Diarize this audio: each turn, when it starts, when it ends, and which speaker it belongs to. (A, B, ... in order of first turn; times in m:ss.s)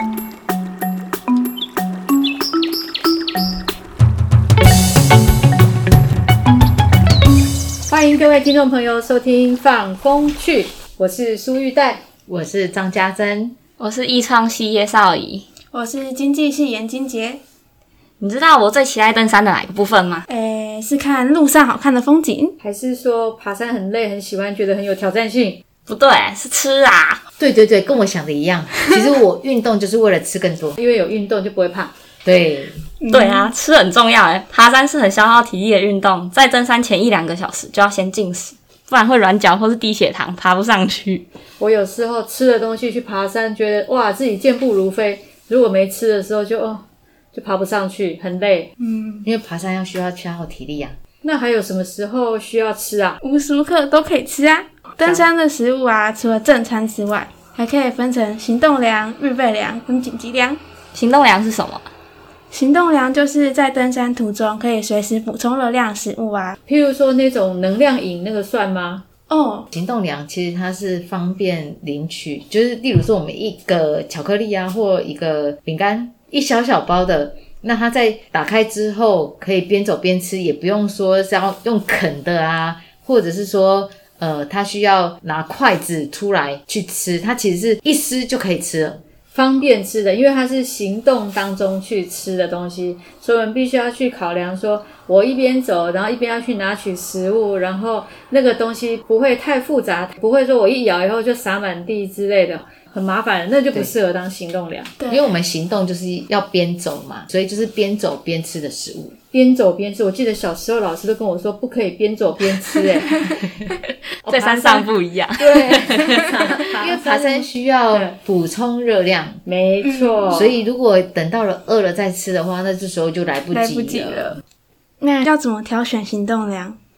0:07.9-0:12.0 A
0:12.3-0:13.6 B
0:13.8-0:15.5 C
0:15.7-0:17.4 D
0:18.2-0:20.2 C
0:20.3-0:22.6 D
0:22.6-0:25.6 A
0:25.9-0:27.2 C
0:27.4-0:30.8 B
0:30.8-0:31.9 A
0:32.2-0:32.8 B
0:33.0-0:33.5 D
0:33.1-0:41.2 C
0:41.6-0:48.7 A
0:48.8-0:49.3 D
0:49.2-0:50.9 B
0:51.2-0:53.2 A
0:53.2-1:00.6 D
0:55.0-0:55.3 B
1:00.9-1:01.9 C
1:02.5-1:06.6 D
1:06.6-1:09.0 A
1:09.3-1:09.7 D
1:09.7-1:29.0 B
1:29.3-1:44.9 A
1:45.0-1:45.2 D
1:45.1-1:49.2 B
1:49.3-1:53.2 A
1:52.7-1:53.7 B
1:54.2-1:58.2 A
1:54.3-1:56.3 C
1:56.7-1:59.4 B
1:59.4-2:00.5 A
1:59.8-2:00.4 D
2:00.3-2:04.4 B
2:03.5-2:04.4 D
2:05.0-2:06.8 D